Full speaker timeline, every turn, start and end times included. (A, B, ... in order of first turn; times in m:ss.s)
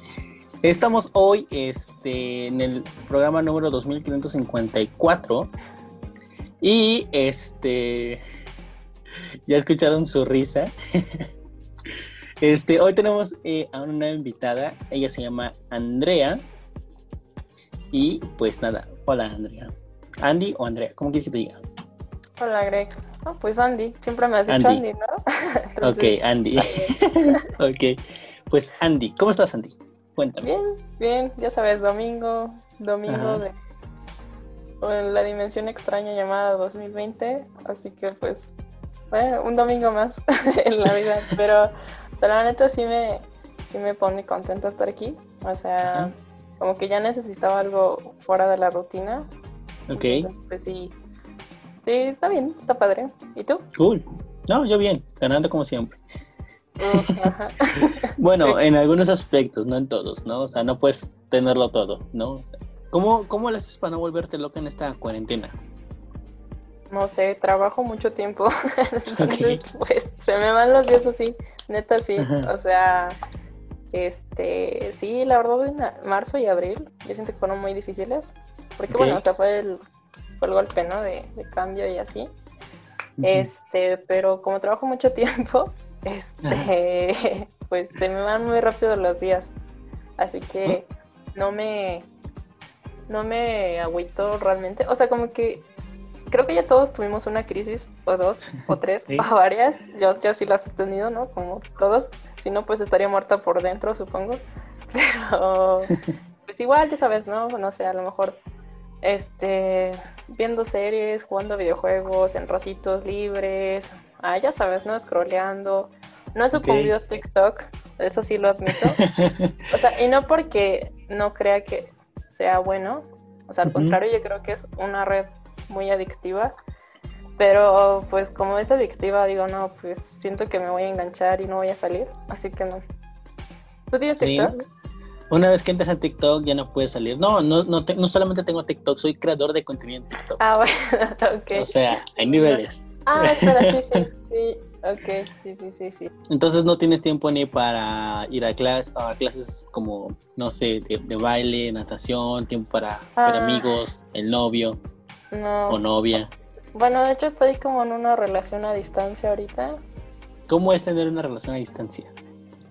0:00.6-0:05.5 A
0:06.6-0:08.2 A
0:09.5-0:11.3 A
0:12.4-0:16.4 A
0:17.9-0:21.6 A
0:22.4-0:25.2 B
0:24.5-0:24.8 A
0:25.8-0:27.3 B
0:25.8-0:30.5 A
0:30.4-0:33.5 B
0:33.1-0:33.4 A
0:34.8-0:38.5 B
0:39.1-0:49.3 B
0:49.9-0:50.3 A
0:50.0-0:51.0 B
0:51.8-0:53.7 B
0:53.8-0:56.0 A
0:56.8-0:58.6 B
0:56.9-0:57.3 A
0:57.8-1:05.6 A
1:06.9-1:13.2 B
1:09.2-1:09.6 A
1:12.2-1:12.5 A
1:13.9-1:19.8 B
1:18.9-1:19.2 A
1:20.4-1:22.3 B
1:23.2-1:23.5 A
1:23.2-1:29.5 B
1:26.4-1:26.7 A
1:30.2-1:32.1 B
1:33.1-1:35.7 B
1:36.3-1:45.9 B
1:38.7-1:39.3 A
1:46.5-1:48.4 B
1:49.0-1:59.0 B
1:56.5-1:57.0 A
1:59.0-1:59.6 A
1:59.7-2:06.5 B
2:03.7-2:04.0 A
2:07.4-2:12.8 B
2:13.9-2:14.6 B
2:14.2-2:14.6 A
2:15.3-2:20.4 A
2:20.4-2:26.1 B
2:21.6-2:24.0 A
2:26.3-2:34.8 A
2:33.2-2:33.7 B
2:35.3-2:35.8 B
2:35.7-2:36.3 A
2:36.8-2:39.8 B
2:40.5-2:42.1 A